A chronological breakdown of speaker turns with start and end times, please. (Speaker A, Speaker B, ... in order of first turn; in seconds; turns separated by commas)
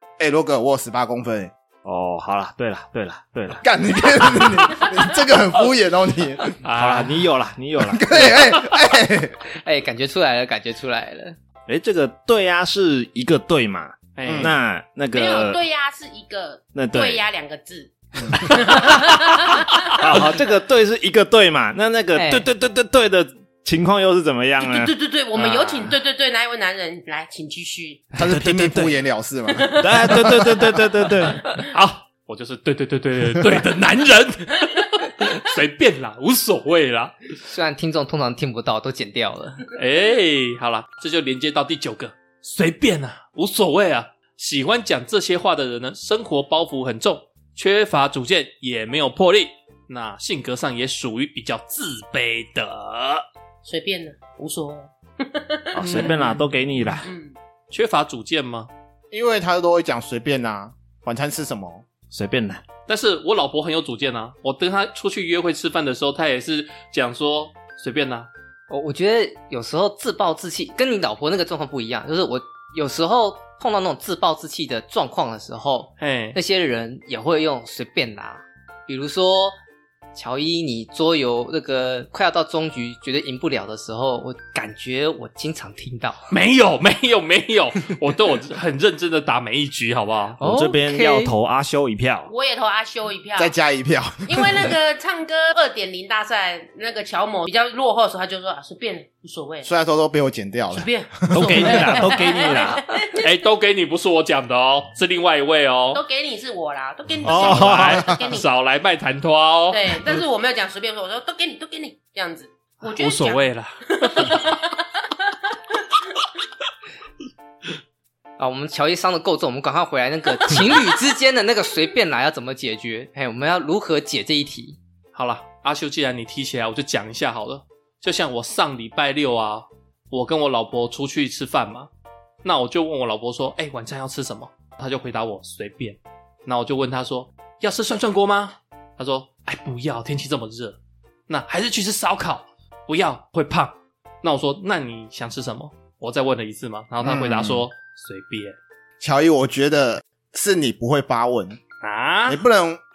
Speaker A: 0.2-1.5, Speaker B: 1.8-3.6, Speaker A: 3.6-6.6, Speaker C: 6.6-7.2, Speaker B: 6.7-8.5, Speaker A: 7.8-9.4, Speaker D: 9.6-11.4, Speaker B: 11.7-15.6, Speaker C: 14.1-14.5, Speaker A: 14.2-14.5, Speaker E: 15.1-20.2, Speaker B: 16.7-17.2, Speaker A: 18.2-18.5, Speaker B: 18.4-25.9, Speaker D: 22.1-22.4, Speaker E: 24.6-28.1, Speaker B: 28.2-28.9, Speaker A: 28.2-29.9, Speaker E: 29.5-30.6, Speaker B: 29.8-31.5, Speaker C: 31.6-37.1, Speaker D: 37.4-39.6, Speaker C: 39.7-53.2, Speaker E: 53.6-56.5, Speaker B: 55.7-57.1, Speaker E: 57.0-57.3, Speaker C: 57.7-58.7, Speaker A: 59.1-61.9, Speaker B: 62.1-62.6, Speaker C: 62.9-68.3, Speaker D: 68.7-79.5, Speaker C: 76.0-76.4, Speaker D: 80.1-86.3, Speaker C: 86.3-90.4, Speaker B: 90.4-92.3, Speaker D: 90.4-91.3, Speaker E: 92.3-93.5, Speaker A: 93.3-94.7, Speaker E: 94.2-99.7, Speaker A: 99.6-101.7, Speaker E: 100.7-103.3, Speaker B: 101.3-102.9, Speaker C: 103.1-106.0, Speaker E: 105.9-108.4, Speaker B: 107.2-108.1, Speaker C: 107.4-110.0, Speaker E: 109.7-115.3, Speaker C: 112.8-114.5, Speaker D: 118.4-124.8, Speaker C: 125.1-131.9, Speaker C: 132.4-148.6, Speaker A: 147.0-147.7, Speaker A: 149.0-151.6, Speaker C: 151.8-152.4, Speaker A: 152.3-152.8